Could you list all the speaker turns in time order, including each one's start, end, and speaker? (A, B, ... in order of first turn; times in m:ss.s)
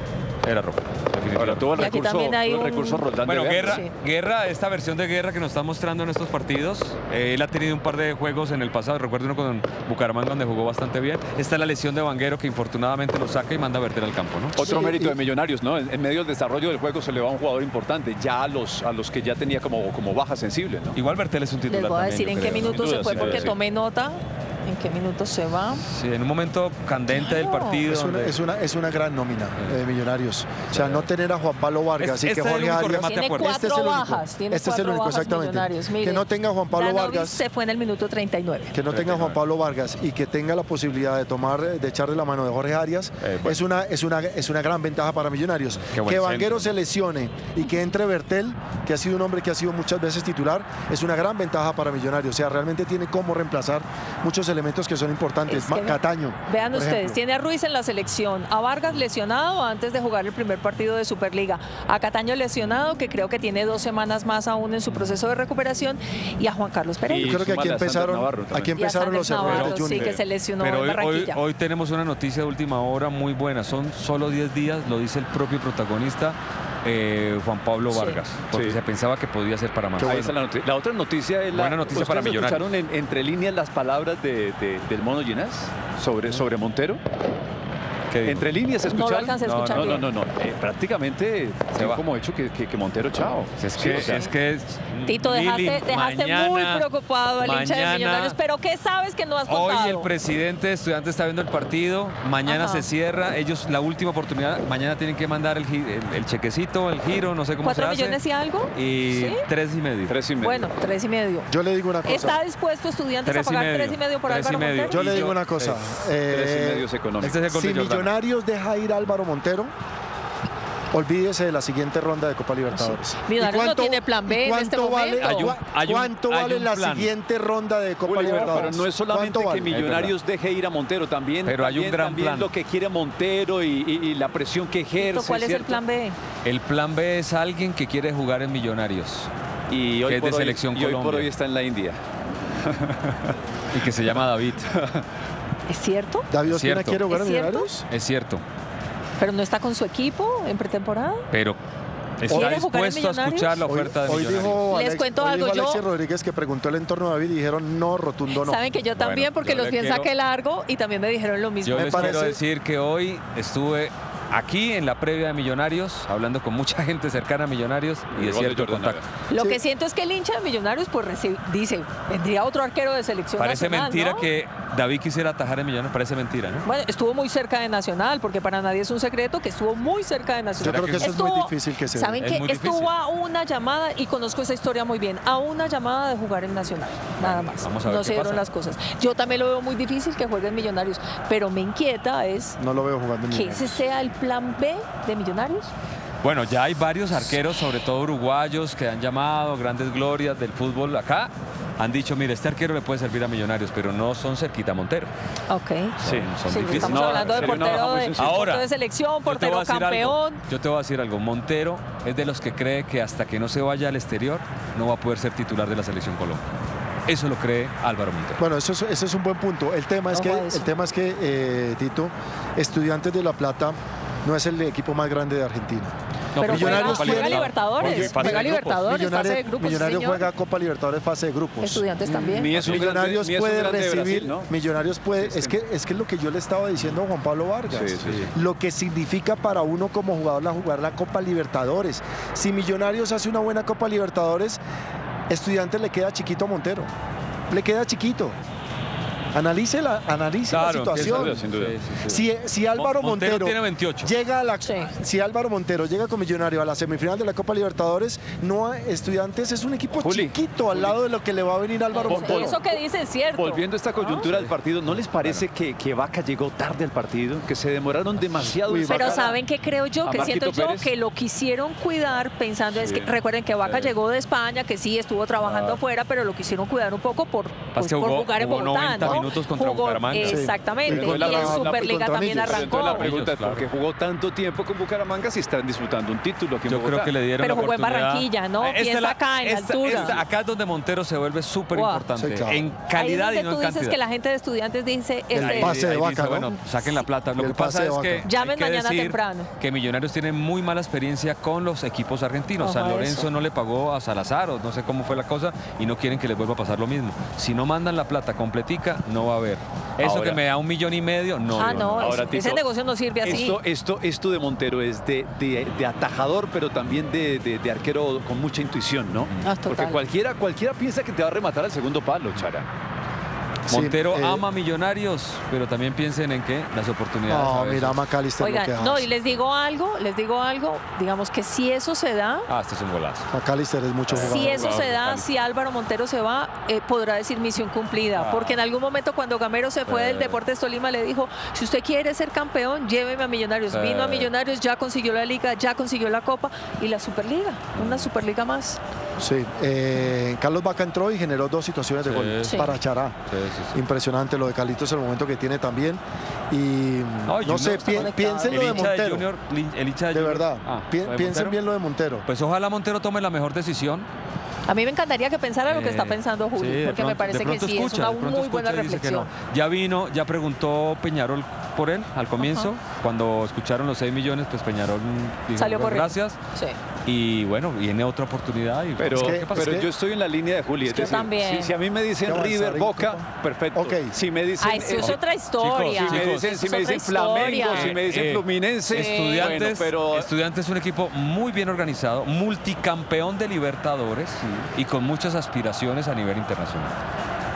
0:00.4-0:01.7 A
0:01.4-0:03.8 B
0:01.8-0:03.1 C
0:03.2-0:14.6 A
0:03.6-0:03.9 C
0:14.6-0:21.0 B
0:14.6-0:15.2 D
0:20.9-0:23.5 A
0:21.7-0:25.8 C
0:22.6-0:23.6 B
0:25.9-0:28.4 A
0:27.1-0:27.8 C
0:27.8-0:37.4 D
0:30.7-0:31.0 A
0:32.0-0:33.6 A
0:33.0-0:38.7 C
0:38.7-0:57.2 D
0:38.9-0:39.4 A
0:43.2-0:43.6 A
0:45.9-0:46.7 A
0:55.5-1:07.4 C
1:07.1-1:10.2 B
1:07.1-1:10.2 D
1:08.8-1:11.4 C
1:09.4-1:10.1 A
1:10.6-1:20.4 A
1:17.9-1:18.2 C
1:18.5-1:18.8 B
1:20.0-1:27.0 B
1:21.5-1:22.7 A
1:28.1-1:28.4 A
1:28.2-1:34.3 B
1:28.9-1:30.1 C
1:29.4-1:30.0 A
1:31.8-1:32.0 A
1:33.6-1:36.9 A
1:35.1-1:40.1 C
1:37.4-1:38.4 A
1:39.5-1:48.2 A
1:42.4-1:42.9 C
1:47.6-1:49.4 C
1:48.7-1:50.2 A
1:50.1-1:50.7 B
1:50.4-1:51.5 C
1:51.5-1:52.4 D
1:52.0-1:55.0 C
1:53.2-1:55.8 A
1:54.9-1:56.9 D
1:55.0-1:55.3 B
1:56.3-1:57.4 B
1:57.2-1:58.1 A
1:57.5-1:59.7 D
2:00.9-2:09.7 D
2:02.7-2:05.4 C
2:05.2-2:07.1 A
2:08.0-2:15.8 B
2:09.7-2:10.2 A
2:11.4-2:12.5 A
2:15.0-2:16.2 C
2:16.4-2:19.3 A
2:19.7-2:22.0 B
2:20.0-2:21.3 A
2:22.5-2:23.4 B
2:23.7-2:24.7 A
2:24.7-2:25.0 B
2:25.7-2:26.3 C
2:26.3-2:27.8 D
2:26.5-2:27.0 A
2:27.1-2:27.7 C
2:27.9-2:28.4 A
2:29.2-2:31.3 C
2:31.3-2:31.6 A
2:32.2-2:34.7 A
2:32.3-2:32.6 D
2:32.3-2:33.7 C
2:33.7-2:38.6 D
2:34.6-2:35.8 C
2:38.3-2:42.2 C
2:39.0-2:40.1 A
2:39.5-2:39.8 B
2:41.6-2:49.0 A
2:41.7-2:42.4 D
2:48.1-2:49.1 B
2:49.3-2:54.3 C
2:53.4-2:56.7 A
2:56.6-3:12.6 C
3:00.6-3:01.2 A
3:00.6-3:02.2 D
3:02.2-3:02.9 A
3:07.2-3:08.4 A
3:12.6-3:13.8 D
3:13.3-3:15.7 C
3:16.2-3:25.1 A
3:25.5-3:30.4 C
3:26.0-3:28.6 A
3:26.0-3:28.4 B
3:29.2-3:36.5 A
3:37.1-3:38.4 A
3:38.4-3:51.8 D
3:40.1-3:40.7 C
3:46.3-3:48.9 A
3:46.4-3:50.2 C
3:51.6-3:52.6 C
3:52.1-3:54.5 B
3:52.5-3:52.9 A
3:52.6-4:04.6 D
3:55.2-3:55.5 B
3:57.7-3:58.3 B
4:05.3-4:06.9 D
4:07.5-4:08.4 D
4:09.3-4:11.4 D
4:10.5-4:14.1 A
4:10.9-4:11.8 B
4:12.0-4:22.6 D
4:14.6-4:14.9 C
4:20.0-4:21.0 B
4:21.9-4:24.3 C
4:22.1-4:22.8 B
4:23.4-4:29.4 B
4:25.0-4:25.4 A
4:28.6-4:29.3 D
4:28.9-4:43.1 C
4:30.1-4:30.9 B
4:32.7-4:33.1 B
4:33.6-4:34.0 A
4:35.4-4:35.8 A
4:37.8-4:40.5 A
4:40.2-4:42.8 D
4:40.9-4:47.2 B
4:42.8-4:43.7 A
4:46.7-4:54.0 A
4:47.4-4:50.2 C
4:51.7-4:52.1 C
4:52.2-4:52.6 D
4:52.9-4:55.9 C
4:55.3-4:56.5 D
4:55.4-5:12.3 A
4:57.4-4:58.3 D
4:58.2-4:59.5 C
5:02.6-5:03.3 C
5:10.0-5:10.4 B
5:11.5-5:13.6 C
5:11.7-5:12.6 B
5:13.2-5:22.7 B
5:19.4-5:20.0 C
5:23.7-5:24.4 D
5:23.7-5:28.0 A
5:27.3-5:29.1 D
5:28.4-5:32.5 C
5:32.5-5:33.3 A
5:33.3-5:34.8 D
5:34.1-5:35.3 A
5:34.2-5:48.8 C
5:38.2-5:38.6 A
5:39.9-5:40.4 A
5:43.7-5:44.3 A
5:47.8-5:48.1 A
5:49.2-5:53.2 D
5:52.0-5:52.7 A
5:52.4-5:52.8 C
5:53.3-5:53.8 A
5:53.7-5:59.3 D
5:57.3-6:01.6 A
5:57.8-5:58.9 C
6:00.1-6:02.3 D
6:02.3-6:04.1 A
6:04.7-6:09.3 C
6:05.7-6:16.4 A
6:12.4-6:12.7 C
6:15.6-6:16.8 C
6:17.0-6:19.8 A
6:19.0-6:25.2 B
6:19.2-6:19.9 D
6:20.9-6:21.7 C
6:22.2-6:24.2 D
6:24.6-6:28.0 C
6:25.0-6:26.5 A
6:25.7-6:30.3 B
6:27.4-6:36.9 A
6:28.9-6:29.6 C